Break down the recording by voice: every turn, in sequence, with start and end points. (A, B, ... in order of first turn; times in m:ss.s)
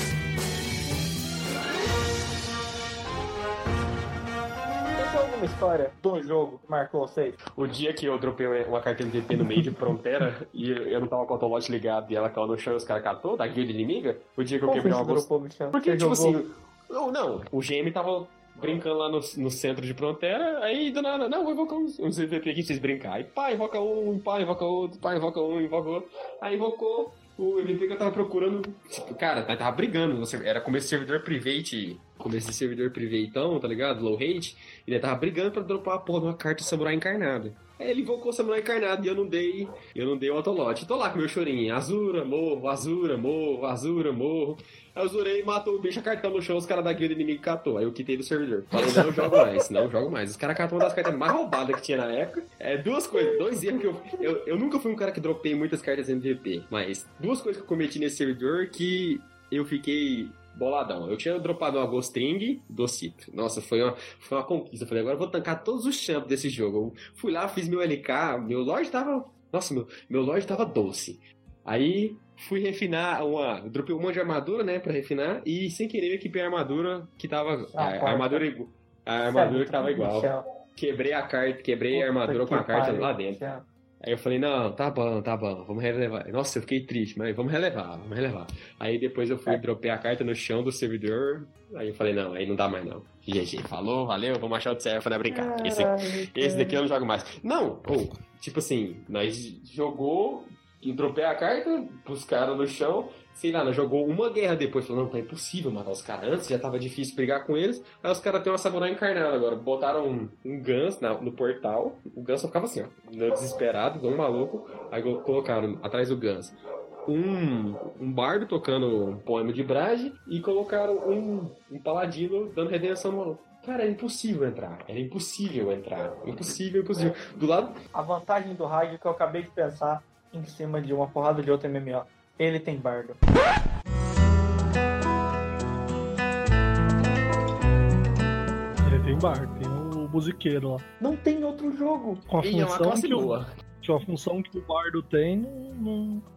0:05.0-0:07.4 A
0:07.6-1:23.4 B
0:14.7-0:16.4 A
0:48.9-0:49.4 A
1:17.7-1:18.5 A
1:19.4-1:20.4 A
1:21.9-1:23.6 A
1:24.0-1:56.6 B
1:35.3-1:36.8 A
1:57.1-2:07.8 B
2:07.9-2:13.2 A
2:18.8-2:20.8 C
2:21.0-2:22.3 A
2:22.3-2:26.2 C
2:22.4-2:23.5 B